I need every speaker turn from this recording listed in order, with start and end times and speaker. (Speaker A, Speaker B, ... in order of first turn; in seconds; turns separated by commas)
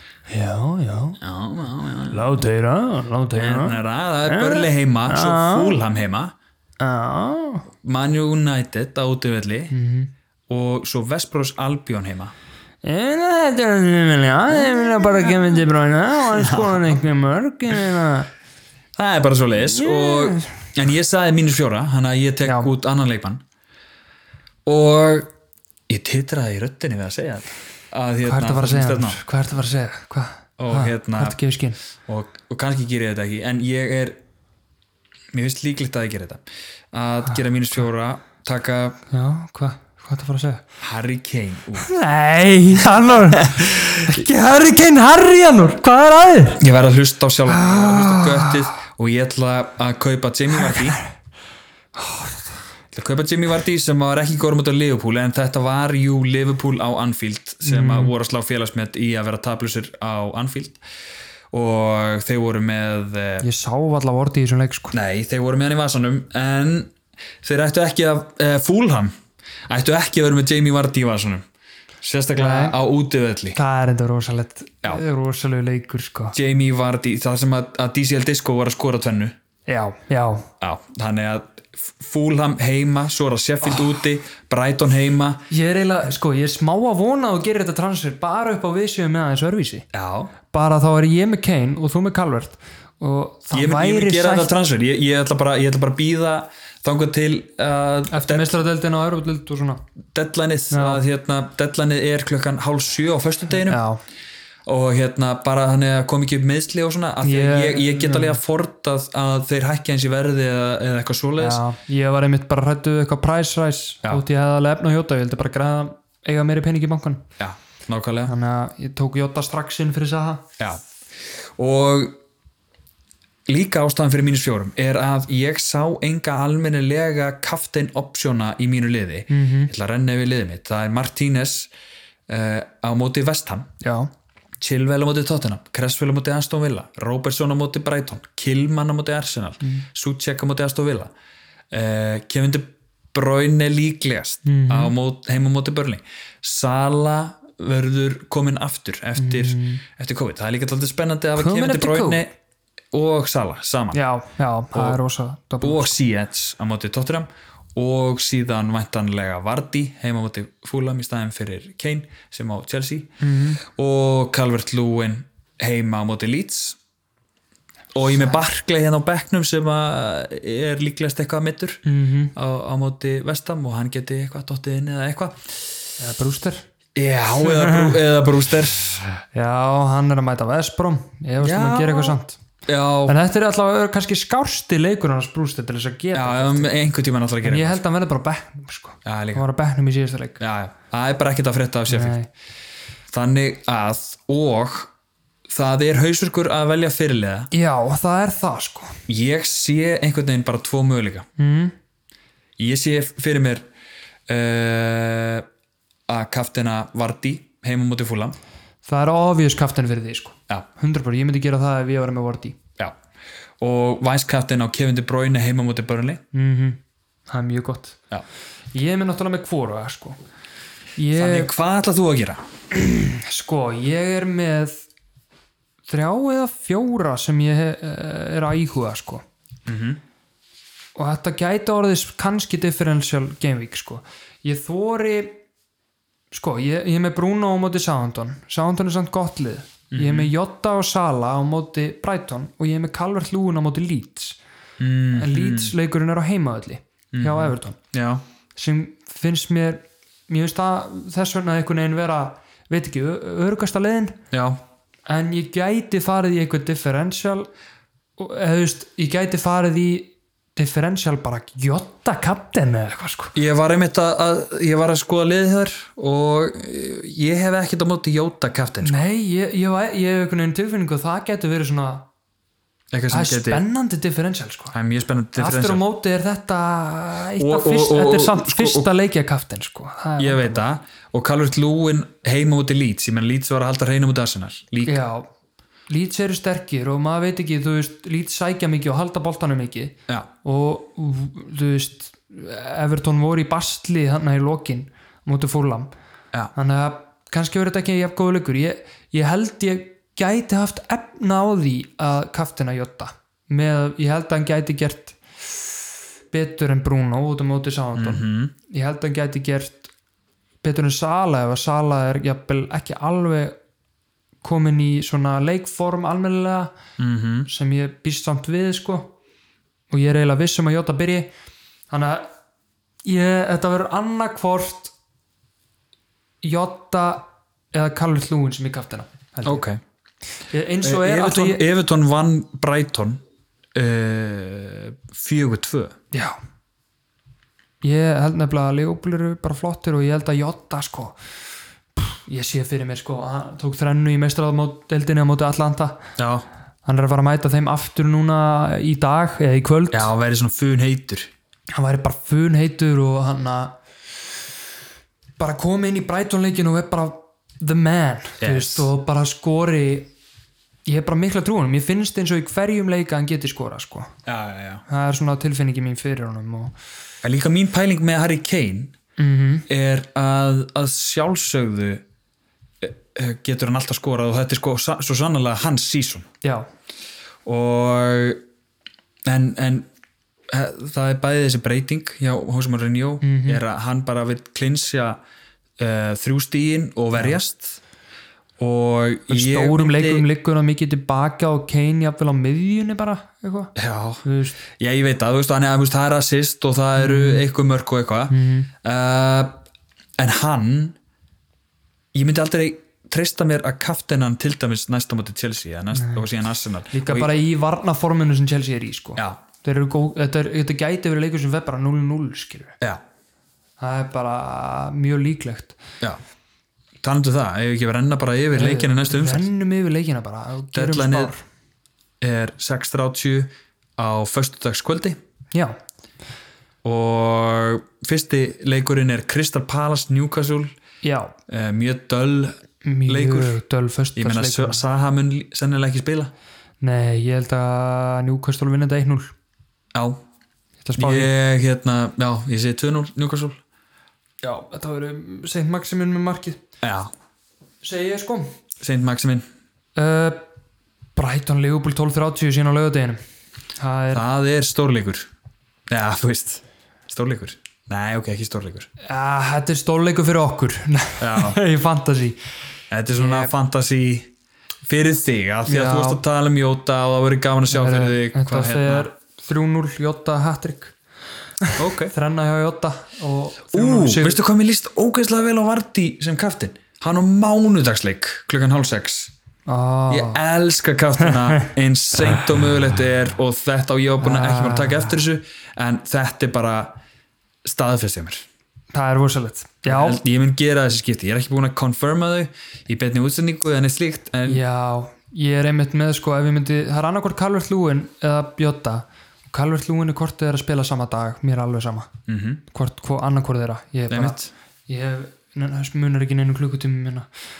Speaker A: 0.3-1.2, Speaker B: 1.2-2.3, Speaker A: 2.1-5.8, Speaker B: 3.3-6.3, Speaker A: 6.8-7.7, Speaker B: 7.8-9.7, Speaker A: 9.7-10.1, Speaker B: 10.5-12.3, Speaker A: 12.8-18.3, Speaker B: 14.7-15.3, Speaker B: 16.3-17.0, Speaker B: 19.0-23.4, Speaker A: 19.6-20.6, Speaker A: 22.4-22.7, Speaker B: 24.6-25.3, Speaker B: 25.9-29.2, Speaker A: 28.2-31.8, Speaker B: 30.6-31.4, Speaker B: 32.1-34.2, Speaker B: 35.3-39.0, Speaker A: 39.1-40.6, Speaker B: 40.8-41.9, Speaker A: 41.8-46.6, Speaker B: 43.0-44.2, Speaker B: 46.6-51.0, Speaker A: 47.5-48.7, Speaker A: 50.6-51.0, Speaker A: 52.0-52.5, Speaker B: 52.9-60.8, Speaker A: 57.6-58.1, Speaker B: 61.5-63.5, Speaker A: 63.4-65.0, Speaker B: 64.9-69.1, Speaker B: 69.7-71.4, Speaker B: 72.0-73.6, Speaker A: 72.3-72.8, Speaker A: 73.5-76.3, Speaker B: 76.3-79.3, Speaker A: 79.7-80.5, Speaker B: 80.6-85.4, Speaker A: 85.5-89.8, Speaker B: 89.9-90.3, Speaker A: 90.5-94.5, Speaker B: 93.5-98.5, Speaker A: 98.1-99.8, Speaker B: 100.1-103.8, Speaker A: 100.7-101.0, Speaker A: 103.6-104.0, Speaker B: 104.7-111.6, Speaker A: 107.2-108.4, Speaker A: 111.4-117.3, Speaker B: 117.4-118.3, Speaker A: 118.2-120.5, Speaker B: 121.4-122.2, Speaker B: 123.5-131.7, Speaker A: 129.3-129.7, Speaker B: 132.3-133.7, Speaker A: 133.8-134.1, Speaker B: 134.6-141.1, Speaker B: 141.7-152.3, Speaker A: 144.4-144.9, Speaker A: 149.2-149.8, Speaker A: 151.3-152.3, Speaker B: 152.9-154.0, Speaker A: 153.9-155.9, Speaker B: 154.7-155.0, Speaker B: 155.6-166.8, Speaker A: 163.2-163.6, Speaker B: 167.9-171.8, Speaker A: 171.8-172.3, Speaker B: 172.3-175.7, Speaker A: 176.0-176.7, Speaker B: 176.9-179.1, Speaker A: 177.4-178.0, Speaker A: 179.3-182.4, Speaker B: 181.4-183.2, Speaker A: 183.1-186.7, Speaker B: 186.1-187.8, Speaker A: 187.4-190.4, Speaker B: 189.0-189.4, Speaker B: 190.4-192.2, Speaker A: 191.9-192.3, Speaker B: 193.1-194.9, Speaker B: 195.5-197.5, Speaker A: 197.5-199.0, Speaker B: 199.1-201.3, Speaker A: 201.4-201.7, Speaker B: 202.6-203.7, Speaker B: 204.3-205.4, Speaker B: 206.1-208.4, Speaker A: 208.8-212.6, Speaker B: 213.6-216.2, Speaker A: 216.3-218.0, Speaker A: 218.7-220.2, Speaker A: 221.0-221.5, Speaker B: 221.1-222.4, Speaker A: 222.7-224.8, Speaker A: 225.9-229.2, Speaker B: 229.7-230.0, Speaker A: 230.9-235.4, Speaker A: 236.3-244.4, Speaker B: 239.9-240.3, Speaker B: 244.8-245.7, Speaker A: 245.1-247.8, Speaker B: 247.1-248.2, Speaker A: 248.6-254.2, Speaker B: 254.3-254.6, Speaker A: 255.1-257.5, Speaker A: 258.2-263.3, Speaker B: 263.3-269.0, Speaker A: 268.8-272.1, Speaker B: 272.9-273.6, Speaker A: 273.1-274.8, Speaker B: 274.7-275.8, Speaker A: 275.4-280.6, Speaker B: 277.4-278.9, Speaker B: 280.2-285.0, Speaker A: 284.9-285.3, Speaker A: 285.9-295.9, Speaker A: 296.5-305.8, Speaker A: 306.3-309.9, Speaker B: 307.9-308.5, Speaker A: 310.6-313.6, Speaker A: 314.4-316.7, Speaker B: 317.0-317.5, Speaker A: 317.5-319.1, Speaker A: 319.9-321.3, Speaker A: 321.9-322.3, Speaker A: 323.0-324.9, Speaker A: 326.4-329.6, Speaker B: 329.4-329.8, Speaker A: 330.5-331.6, Speaker B: 330.8-333.2, Speaker B: 333.7-335.9, Speaker A: 336.1-336.4, Speaker A: 337.8-341.2, Speaker A: 342.0-346.1, Speaker B: 346.2-346.4, Speaker A: 346.8-350.1, Speaker B: 349.9-351.3, Speaker A: 351.7-353.7, Speaker A: 355.4-360.1, Speaker B: 358.4-358.9, Speaker A: 360.9-364.1, Speaker B: 364.2-364.8, Speaker A: 364.9-366.8, Speaker B: 367.2-368.9, Speaker A: 369.2-369.7, Speaker B: 369.7-372.0, Speaker B: 372.8-376.3, Speaker A: 376.4-376.7, Speaker B: 377.4-378.4, Speaker B: 379.2-379.9, Speaker B: 380.5-385.2, Speaker A: 383.2-383.6, Speaker B: 385.8-387.8, Speaker B: 388.6-390.3, Speaker A: 389.3-393.7, Speaker B: 393.8-399.6, Speaker A: 394.2-394.6, Speaker A: 397.0-397.4, Speaker A: 398.3-398.7, Speaker B: 400.2-400.9, Speaker B: 402.1-407.3, Speaker A: 405.9-406.2, Speaker A: 406.9-412.8, Speaker A: 413.8-415.8, Speaker B: 417.0-419.4, Speaker A: 418.5-421.4, Speaker B: 420.7-421.3, Speaker B: 422.2-425.2, Speaker A: 425.5-425.8, Speaker B: 426.8-430.7, Speaker A: 431.0-431.3, Speaker B: 431.5-433.6, Speaker A: 432.8-434.8, Speaker B: 434.1-436.3, Speaker A: 436.8-439.3, Speaker B: 439.9-440.2, Speaker A: 440.8-441.3, Speaker B: 440.9-443.6, Speaker A: 444.4-446.6, Speaker B: 446.8-447.1, Speaker A: 447.8-448.6, Speaker B: 448.8-449.5, Speaker A: 449.9-450.4, Speaker A: 451.1-453.2, Speaker A: 453.8-454.2, Speaker B: 454.1-455.3, Speaker B: 455.9-458.9, Speaker A: 459.0-462.4, Speaker B: 461.2-461.6, Speaker B: 462.9-464.3, Speaker A: 463.1-463.5, Speaker B: 464.9-469.1, Speaker A: 465.6-466.2, Speaker A: 467.7-470.9, Speaker A: 471.6-474.4, Speaker B: 471.8-472.1, Speaker B: 473.7-479.3, Speaker A: 479.7-480.4, Speaker B: 480.1-487.0, Speaker A: 481.2-481.7, Speaker A: 484.2-485.2, Speaker B: 487.6-488.4, Speaker A: 488.9-490.2, Speaker B: 489.8-494.6, Speaker A: 494.5-502.1, Speaker B: 502.3-502.6, Speaker A: 502.7-507.3, Speaker B: 504.1-504.5